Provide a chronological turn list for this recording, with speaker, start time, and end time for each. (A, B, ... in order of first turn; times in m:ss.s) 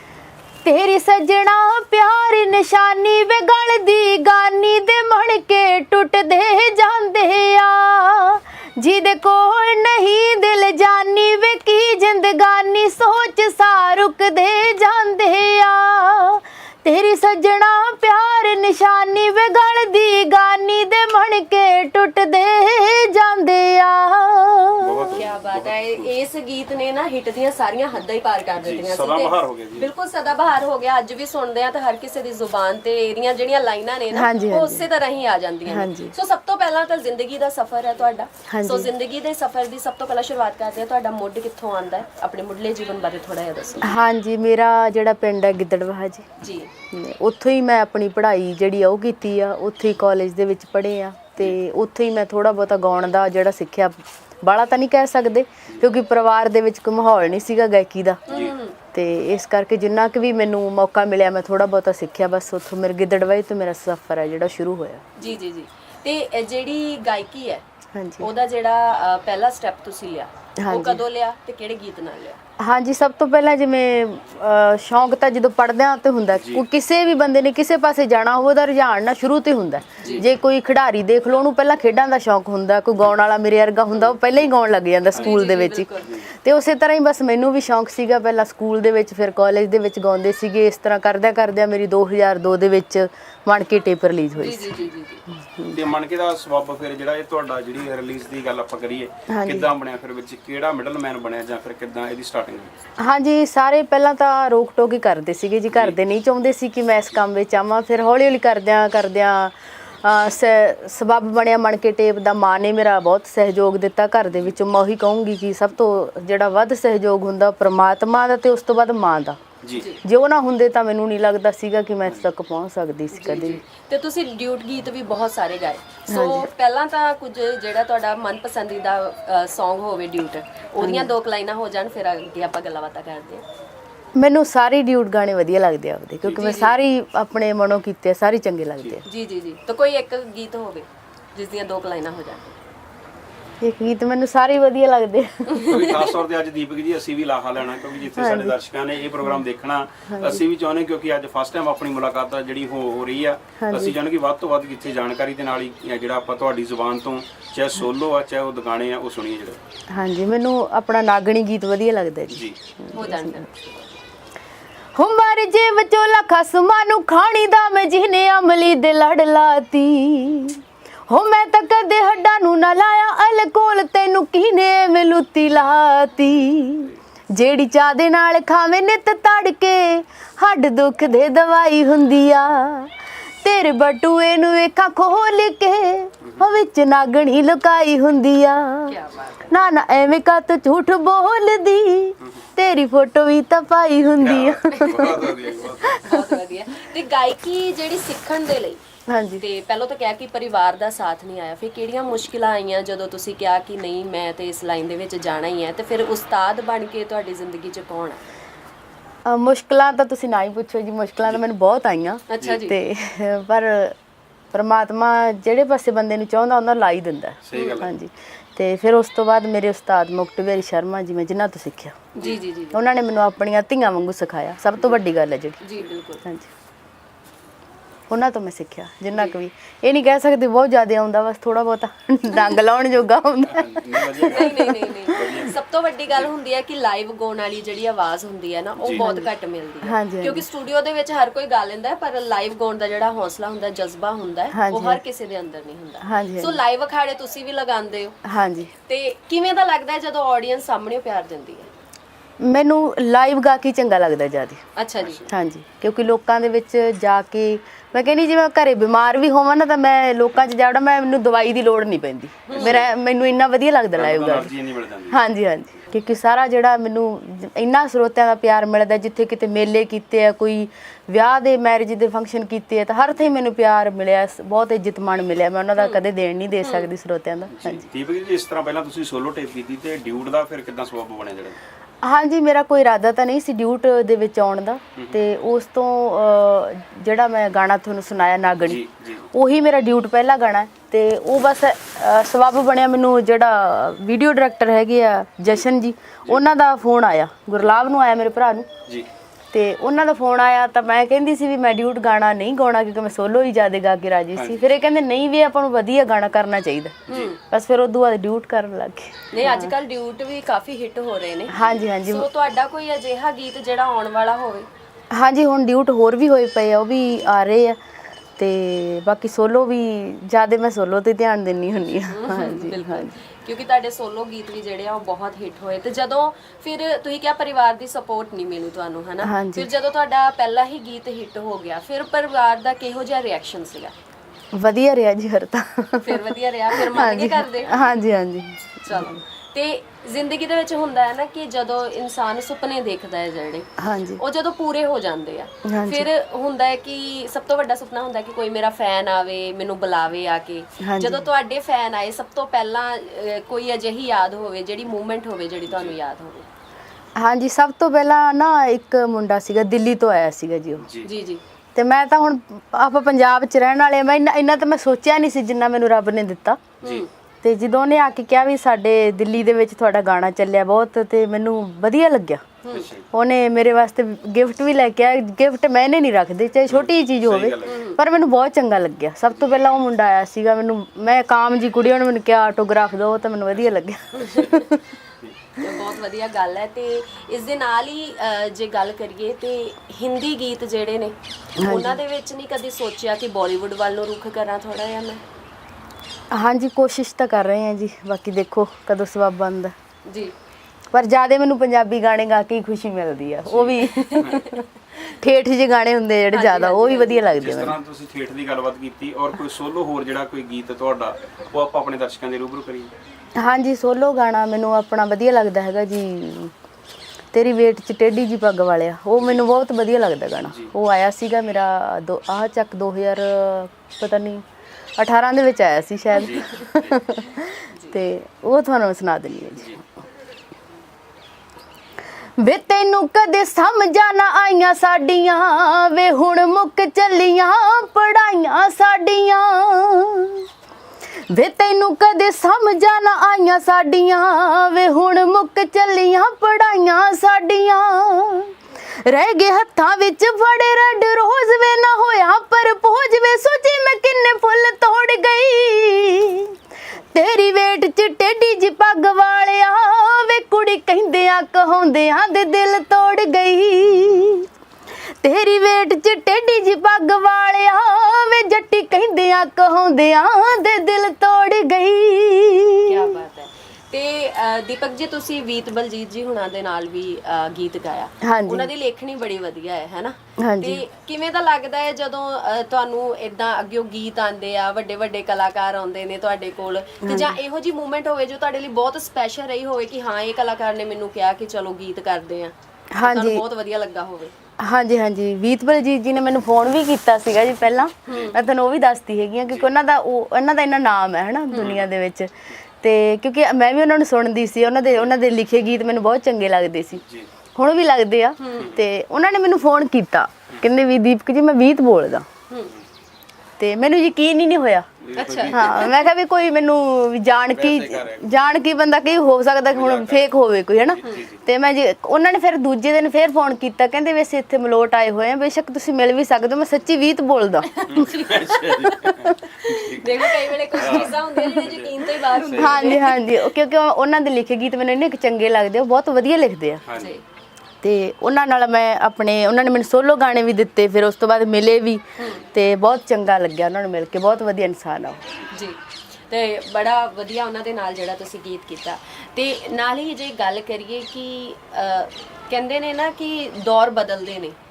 0:00.6-0:25.2 A
0:24.8-0:26.1 B
0:25.1-0:44.0 C
0:28.6-0:29.9 B
0:34.1-0:34.8 A
0:35.7-0:36.1 A
0:38.5-0:38.9 A
0:43.8-0:46.3 A
0:46.4-0:46.7 C
0:46.9-0:58.3 A
0:58.3-0:58.8 C
0:58.3-0:58.5 B
0:58.9-1:05.0 A
1:05.2-1:07.6 C
1:07.9-1:08.3 A
1:08.2-1:12.4 C
1:10.6-1:11.0 A
1:12.6-1:34.8 A
1:16.4-1:16.6 B
1:20.0-1:20.2 C
1:25.2-1:26.1 C
1:34.4-1:35.2 C
1:35.4-1:35.8 A
1:35.7-1:42.7 B
1:39.3-1:39.7 A
1:43.0-1:59.4 A
1:59.6-1:59.9 B
1:59.8-2:00.0 C
2:00.0-2:03.6 A
2:03.1-2:13.4 C
2:06.1-2:06.5 A
2:10.8-2:11.1 A
2:14.2-2:19.0 A
2:16.3-2:16.8 C
2:19.1-2:22.5 C
2:23.6-2:25.8 A
2:25.5-2:26.1 C
2:25.6-2:39.6 B
2:28.1-2:28.6 A
2:30.1-2:30.4 A
2:33.6-2:34.0 A
2:39.9-2:43.4 A
2:42.3-2:42.6 B
2:42.9-2:43.9 C
2:45.0-3:09.0 A
3:08.9-3:09.6 C
3:09.5-3:16.3 A
3:14.2-3:16.1 B
3:14.7-3:15.3 C
3:15.9-3:18.8 C
3:19.1-3:19.4 A
3:19.4-3:28.2 C
3:29.3-3:34.0 A
3:32.3-3:32.8 C
3:34.5-3:42.1 A
3:37.5-3:37.9 B
3:42.2-3:42.8 C
3:42.7-3:45.6 A
3:45.6-3:46.2 C
3:46.2-3:46.5 A
3:48.1-3:55.4 A
3:53.4-3:55.6 B
3:54.2-4:08.2 C
3:58.8-3:59.1 B
3:59.8-4:00.4 A
4:04.5-4:05.0 A
4:06.0-4:06.6 A
4:08.2-4:08.7 A
4:08.9-4:11.7 C
4:12.4-4:14.6 A
4:14.8-4:15.2 C
4:15.0-4:15.3 B
4:15.3-4:24.5 A
4:22.5-4:22.8 C
4:22.5-4:22.9 B
4:24.0-4:25.2 B
4:25.1-4:37.9 A
4:35.8-4:36.0 C
4:36.6-4:36.9 C
4:37.5-4:41.6 B
4:42.0-4:58.7 A
4:48.6-4:49.3 B
4:59.5-5:09.7 A
5:04.4-5:04.6 B
5:07.1-5:07.3 B
5:07.1-5:07.4 C
5:09.3-5:14.7 C
5:11.5-5:12.3 A
5:15.1-5:17.8 A
5:18.4-5:23.1 A
5:22.1-5:33.9 C
5:29.2-5:29.7 A
5:34.5-5:39.2 A
5:36.0-5:37.9 C
5:38.8-5:56.5 C
5:43.8-5:44.2 A
5:45.6-5:46.1 A
5:50.8-5:51.2 A
5:57.2-6:00.9 A
6:00.8-6:01.1 B
6:01.0-6:01.4 C
6:01.8-6:06.6 A
6:06.8-6:07.1 C
6:07.4-6:12.4 A
6:12.6-6:12.9 C
6:12.7-6:13.1 B
6:13.1-6:24.8 A
6:16.7-6:17.8 B
6:17.6-6:18.0 C
6:24.2-6:24.6 C
6:25.6-6:35.2 C
6:31.6-6:32.0 A
6:36.3-6:39.8 A
6:40.1-6:40.3 C
6:40.9-6:47.8 A
6:43.4-6:44.5 B
6:44.0-6:44.6 C
6:46.3-6:47.3 C
6:47.3-6:52.9 B
6:53.4-6:56.5 A
6:57.3-7:04.4 A
7:05.0-7:09.8 A
7:06.2-7:06.9 B
7:12.4-7:20.5 A
7:21.3-7:36.6 A
7:37.1-7:44.5 A
7:45.2-7:53.1 A
7:52.9-8:14.3 C
7:58.2-7:58.7 A
8:00.4-8:00.8 A
8:07.0-8:07.4 A
8:12.9-8:13.4 A
8:14.6-8:27.0 A
8:18.1-8:18.4 C
8:18.1-8:18.4 B
8:21.6-8:21.8 B
8:27.6-8:32.3 A
8:28.4-8:28.7 C
8:33.6-8:34.9 A
8:35.0-8:36.0 B
8:35.2-8:35.9 C
8:35.5-8:48.2 A
8:37.5-8:38.3 B
8:39.7-8:40.3 B
8:40.8-8:41.4 B
8:47.8-8:48.7 C
8:47.9-8:53.0 B
8:49.0-8:49.4 A
8:49.7-8:53.2 C
8:50.8-8:51.0 A
8:52.5-8:56.8 A
8:56.9-8:57.1 B
8:56.9-8:57.2 C
8:57.8-9:05.2 A
9:02.2-9:02.4 C
9:05.5-9:05.8 C
9:06.3-9:14.6 C